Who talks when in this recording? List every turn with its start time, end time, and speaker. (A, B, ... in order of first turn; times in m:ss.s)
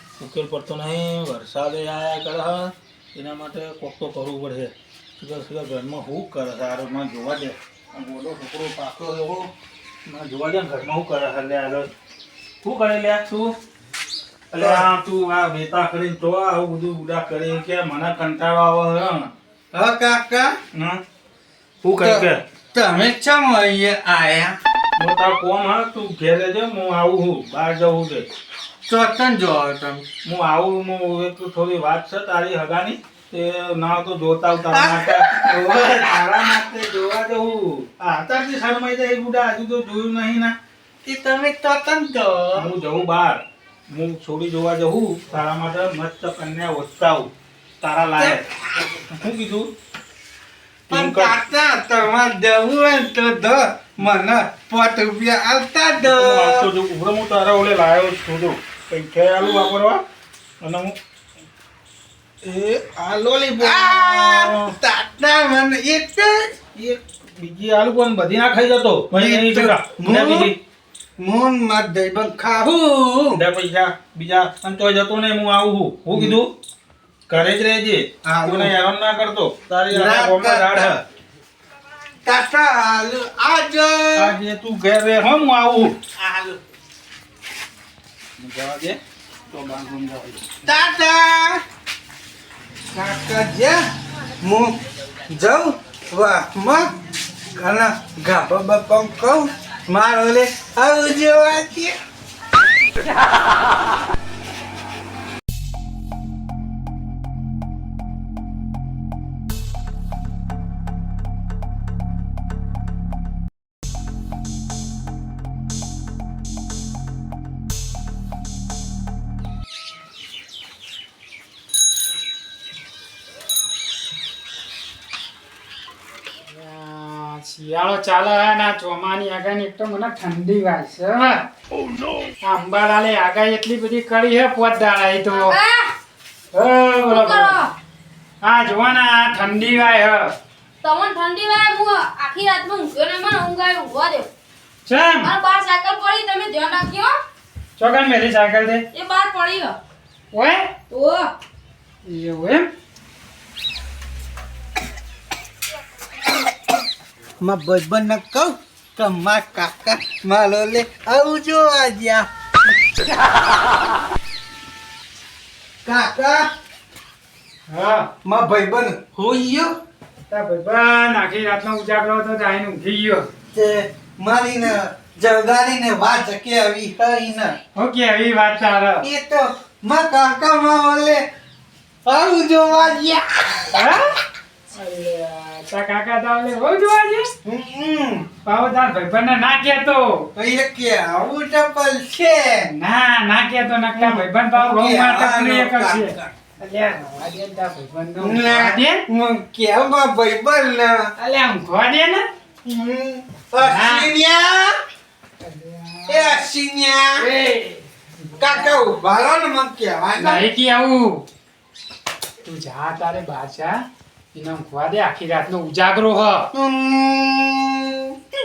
0:00.2-0:09.5 A
0:10.1-0:11.9 A
0:12.6-0:13.6 A
0:14.5-0:19.3 A
0:14.6-0:14.9 B
0:19.7-0:20.6 B
0:20.7-0:21.0 A
0:21.8-0:22.4 A
0:22.0-0:24.6 B
0:25.0-0:28.2 A
0:28.9-0:30.0 B
0:30.2-0:40.5 A
0:34.7-0:36.1 B
0:41.0-0:42.7 B
0:42.5-0:43.4 A
0:43.9-0:48.4 A
0:48.2-0:48.4 B
0:49.2-0:49.7 A
0:50.9-0:51.4 A
0:50.9-0:56.6 B
0:56.0-1:00.0 A
1:00.6-1:01.0 A
1:02.4-1:04.7 A
1:03.6-1:06.4 B
1:06.8-1:10.6 A
1:09.1-1:10.5 B
1:11.2-1:13.4 B
1:13.3-1:16.5 A
1:16.1-1:16.4 B
1:17.3-1:21.0 A
1:18.2-1:18.7 B
1:19.9-1:21.0 B
1:22.2-1:24.4 B
1:24.2-1:26.0 A
1:26.2-1:26.6 B
1:28.4-1:29.0 A
1:29.5-1:30.5 A
1:30.6-1:31.6 B
1:32.9-1:33.8 B
1:34.4-1:34.8 B
1:35.3-1:36.9 B
1:37.5-1:42.0 B
2:06.5-2:11.4 C
2:12.4-2:15.5 C
2:15.3-2:15.9 D
2:16.5-2:17.5 C
2:17.1-2:17.7 D
2:18.4-2:20.3 C
2:20.8-2:24.3 D
2:24.8-2:25.3 C
2:25.2-2:27.1 D
2:27.8-2:28.8 C
2:28.9-2:29.8 D
2:30.3-2:30.7 C
2:30.9-2:31.3 D
2:32.0-2:32.7 C
2:37.4-2:42.3 B
2:45.8-2:46.4 B
2:47.7-2:48.1 C
2:48.2-2:49.5 B
2:49.2-2:49.7 A
2:50.3-2:53.2 C
2:53.5-2:57.6 B
2:57.7-2:59.0 C
2:59.0-3:01.2 B
3:02.0-3:03.7 B
3:03.7-3:04.0 C
3:04.7-3:07.3 C
3:07.4-3:08.2 B
3:08.4-3:10.2 C
3:10.4-3:12.7 B
3:12.7-3:19.0 C
3:13.9-3:16.3 B
3:18.2-3:21.1 B
3:21.2-3:22.2 C
3:22.6-3:24.7 B
3:23.6-3:24.1 C
3:25.4-3:26.4 C
3:26.1-3:27.3 B
3:27.2-3:28.9 C
3:28.4-3:30.5 B
3:30.2-3:31.2 C
3:32.4-3:33.8 C
3:34.3-3:36.5 C
3:36.5-3:38.2 B